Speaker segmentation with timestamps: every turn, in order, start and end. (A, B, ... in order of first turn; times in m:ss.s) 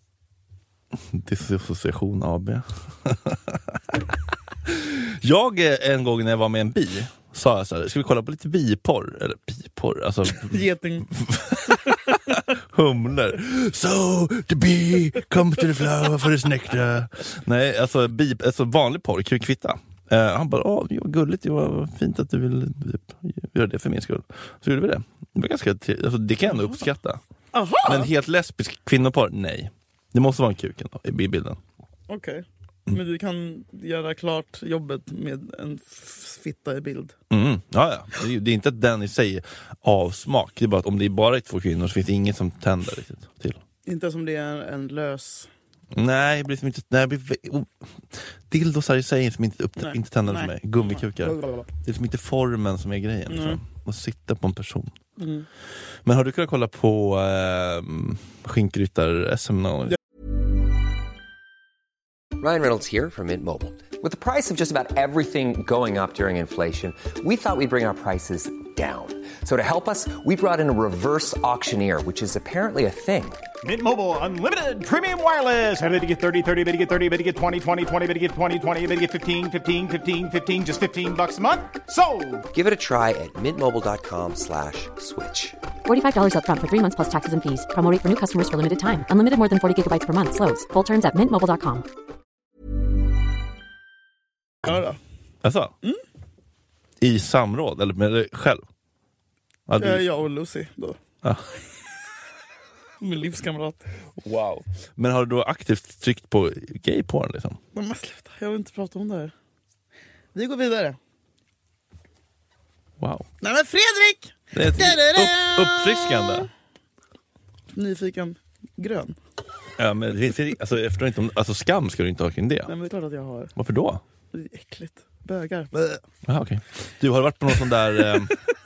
0:00.9-0:04.0 A
0:04.6-0:27.2 A
0:10.3-0:12.4 B
0:27.5-0:28.1 B
0:27.8-0:31.6 A
0:32.1-0:37.2 B
0:37.3-0:43.6 A
0:43.8-0:45.5 B
0:45.9-0:54.9 A
0:49.8-0:51.6 B
0:53.3-0:53.6 B
0:55.2-0:55.5 B
0:56.0-1:00.0 A
1:02.4-1:13.4 C
1:13.6-1:22.4 D
1:22.5-1:25.6 C
1:25.8-1:31.8 E
1:34.6-1:35.0 B
1:35.4-1:35.7 A
1:37.0-1:38.6 A
1:39.7-1:40.0 A
1:39.8-1:41.0 B
1:43.0-1:43.9 B
1:44.2-1:47.6 A
1:47.7-1:49.3 B
1:50.3-1:51.0 B
1:53.0-1:53.3 A
1:53.4-1:56.5 B
1:54.5-1:56.5 A
1:57.7-1:59.2 B
1:59.8-2:02.7 A
2:02.7-2:03.5 B
2:03.6-2:04.0 A
2:04.3-2:06.0 B
2:06.2-2:08.3 A